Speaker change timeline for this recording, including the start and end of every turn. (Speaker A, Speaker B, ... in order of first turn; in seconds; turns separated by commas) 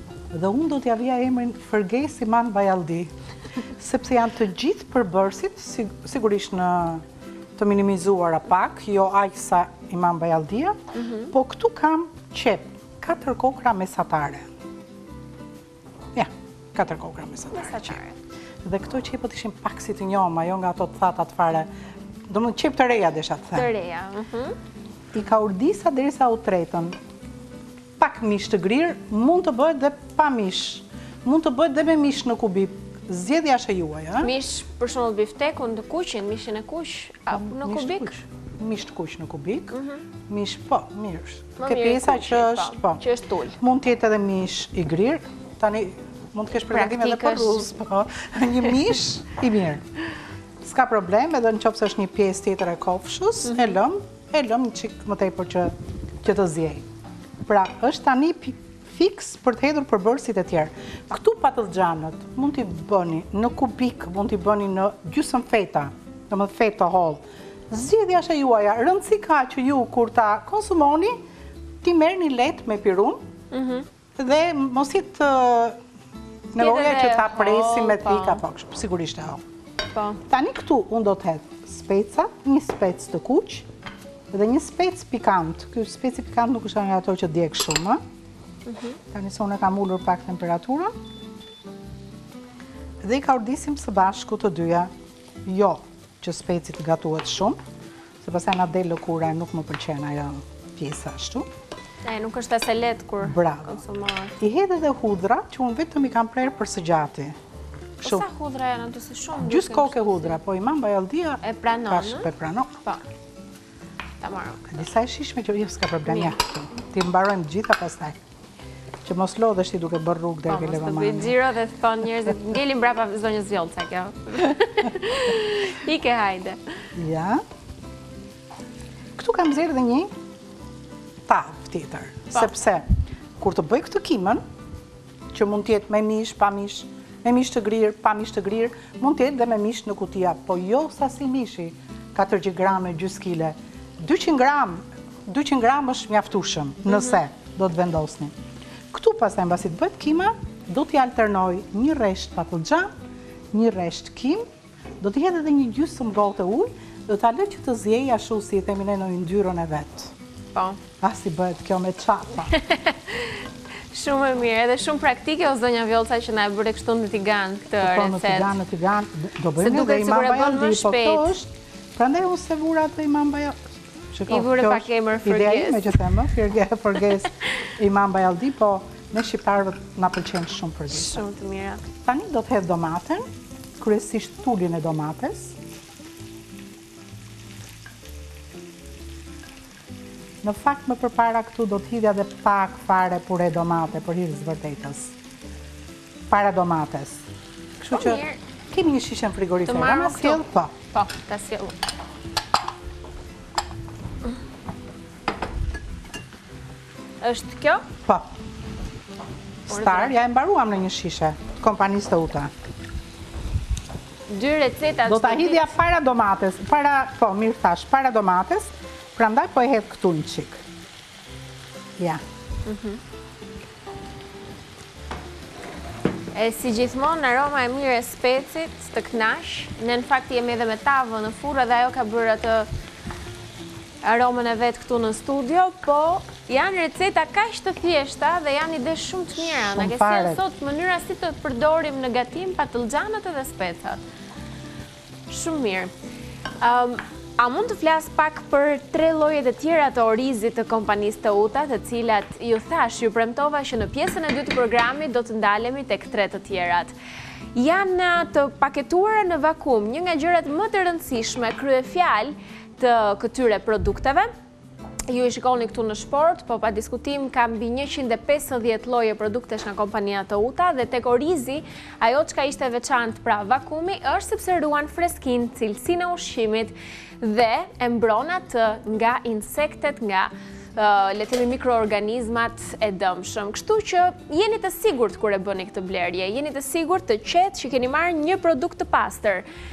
Speaker A: 0.3-3.1, Speaker A: 3.8-7.0, Speaker A: 7.6-10.8, Speaker B: 10.9-11.3, Speaker A: 11.3-14.4, Speaker A: 16.1-18.0, Speaker B: 17.5-18.2, Speaker A: 18.6-21.7, Speaker A: 22.3-23.7, Speaker B: 23.5-24.6, Speaker A: 25.1-26.9, Speaker A: 28.0-34.3, Speaker B: 34.2-38.1, Speaker A: 37.3-39.8, Speaker B: 39.7-40.0, Speaker A: 40.3-43.0, Speaker B: 41.6-43.6, Speaker A: 43.6-49.8, Speaker B: 46.7-47.6, Speaker A: 50.6-56.9, Speaker B: 53.5-53.7, Speaker A: 57.5-71.2, Speaker A: 71.8-73.2, Speaker B: 73.5-73.8, Speaker A: 74.2-75.8, Speaker A: 76.5-79.4, Speaker B: 76.6-78.4, Speaker B: 79.9-80.2, Speaker A: 80.3-83.7, Speaker A: 84.3-88.0, Speaker B: 88.7-89.0, Speaker A: 89.1-90.9, Speaker A: 93.0-94.9, Speaker A: 95.4-97.6, Speaker A: 98.2-101.5, Speaker B: 102.0-104.4, Speaker A: 103.2-103.8, Speaker A: 104.4-107.4, Speaker A: 108.0-108.2, Speaker B: 108.0-110.4, Speaker A: 109.4-112.8, Speaker B: 111.4-112.3, Speaker B: 114.2-114.8, Speaker A: 114.7-118.2, Speaker B: 116.1-116.3, Speaker A: 119.0-121.4, Speaker B: 120.5-126.6, Speaker A: 126.9-127.4, Speaker A: 129.2-130.1, Speaker A: 131.3-132.9, Speaker A: 133.4-134.4, Speaker A: 135.3-148.3, Speaker A: 148.9-152.9, Speaker A: 153.5-154.4, Speaker A: 155.0-160.1, Speaker B: 160.5-160.8, Speaker A: 161.0-162.5, Speaker B: 162.5-168.5, Speaker A: 167.8-181.2, Speaker B: 169.6-171.3, Speaker B: 174.3-176.1, Speaker B: 180.9-181.8, Speaker A: 182.0-183.2, Speaker A: 183.8-185.6, Speaker A: 190.4-195.1, Speaker A: 196.3-197.2, Speaker A: 197.8-200.7, Speaker B: 197.9-198.4, Speaker B: 199.6-201.8, Speaker B: 207.2-207.8, Speaker A: 209.7-212.5, Speaker B: 209.7-210.1, Speaker B: 214.3-215.7, Speaker A: 215.1-220.6, Speaker B: 222.7-223.0, Speaker B: 226.3-232.7, Speaker B: 234.0-244.0, Speaker A: 239.4-240.4, Speaker B: 245.3-245.9, Speaker B: 246.6-256.9, Speaker B: 257.5-264.3, Speaker B: 265.1-289.4